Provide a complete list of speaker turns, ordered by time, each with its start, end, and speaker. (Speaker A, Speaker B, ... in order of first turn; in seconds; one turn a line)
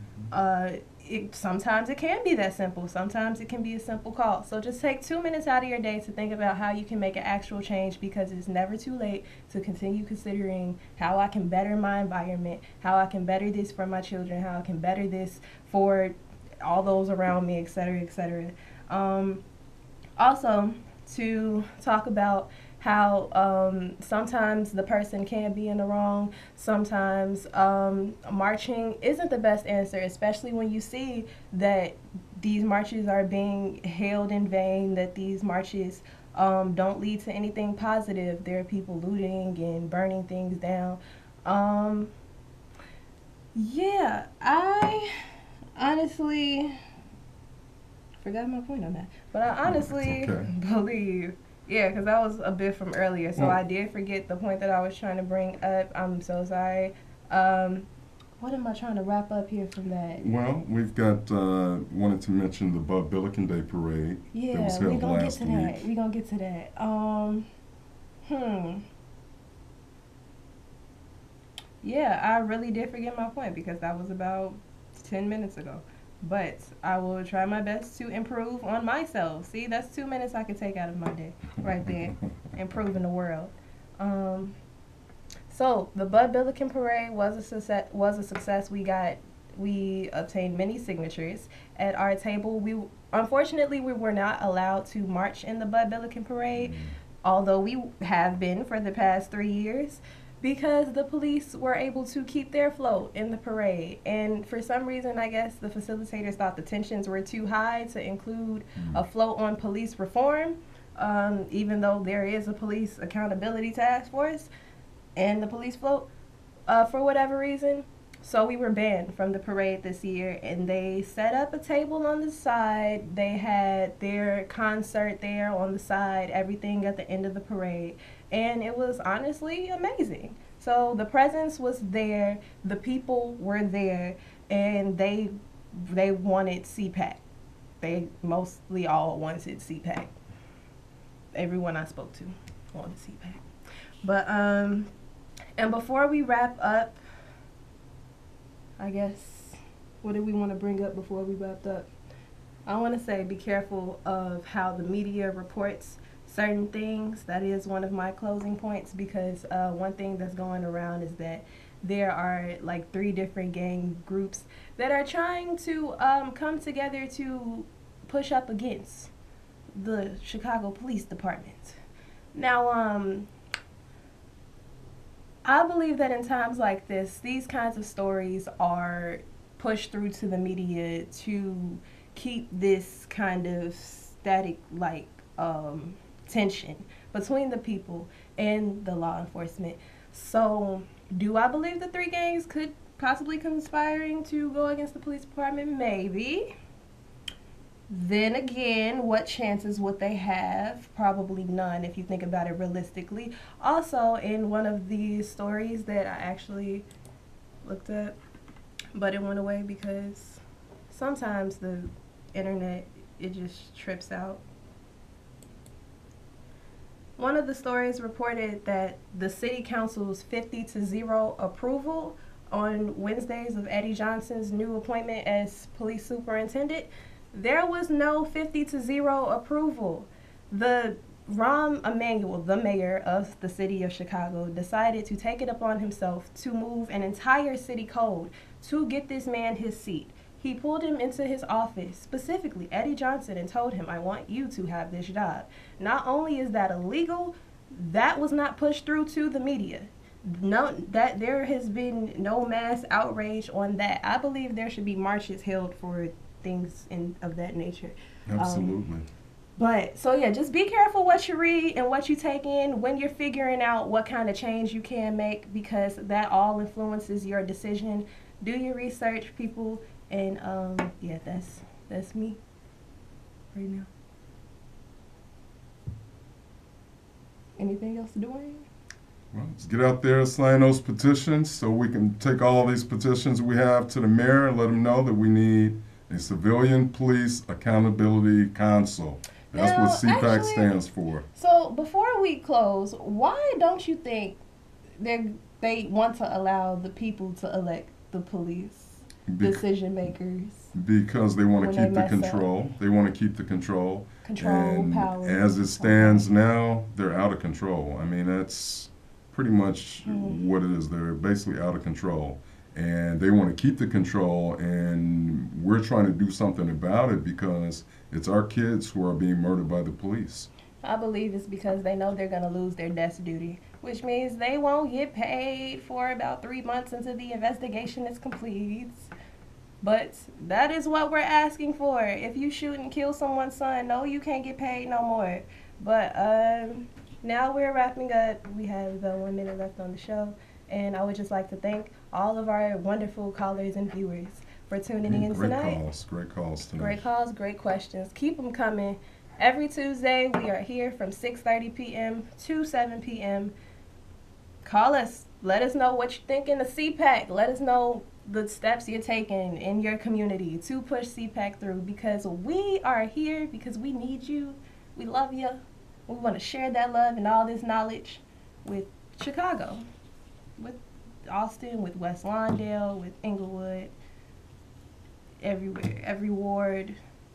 Speaker A: 0.3-19.4
Speaker A: 20.2-42.1
Speaker A: 43.5-45.1
Speaker A: 45.8-46.8
Speaker A: 48.2-57.9
Speaker B: 49.6-50.5
Speaker A: 58.4-60.3
Speaker B: 60.2-65.9
Speaker A: 64.3-67.5
Speaker A: 68.3-68.8
Speaker A: 71.8-84.6
Speaker A: 85.5-114.5
Speaker B: 96.6-97.0
Speaker B: 108.8-109.0
Speaker A: 115.2-116.1
Speaker A: 116.7-137.2
Speaker A: 137.8-140.1
Speaker A: 141.3-143.4
Speaker A: 144.0-144.9
Speaker A: 145.6-147.0
Speaker A: 148.8-151.9
Speaker A: 152.7-169.1
Speaker A: 169.7-171.8
Speaker A: 172.3-173.3
Speaker A: 175.4-196.5
Speaker A: 197.9-206.9
Speaker A: 207.7-208.2
Speaker A: 208.9-214.4
Speaker A: 217.2-258.8
Speaker B: 258.3-259.1
Speaker A: 259.6-272.4
Speaker A: 273.5-273.9
Speaker A: 277.6-278.7
Speaker B: 279.3-291.3
Speaker A: 289.5-290.7
Speaker A: 291.4-294.4
Speaker A: 295.0-300.7
Speaker B: 299.3-299.6
Speaker B: 300.7-320.5
Speaker A: 301.6-302.4
Speaker A: 304.2-306.3
Speaker A: 310.1-310.4
Speaker A: 320.8-329.1
Speaker A: 329.8-345.8
Speaker B: 345.1-347.0
Speaker A: 346.8-353.5
Speaker A: 354.6-369.8
Speaker A: 370.6-373.9
Speaker A: 375.4-377.0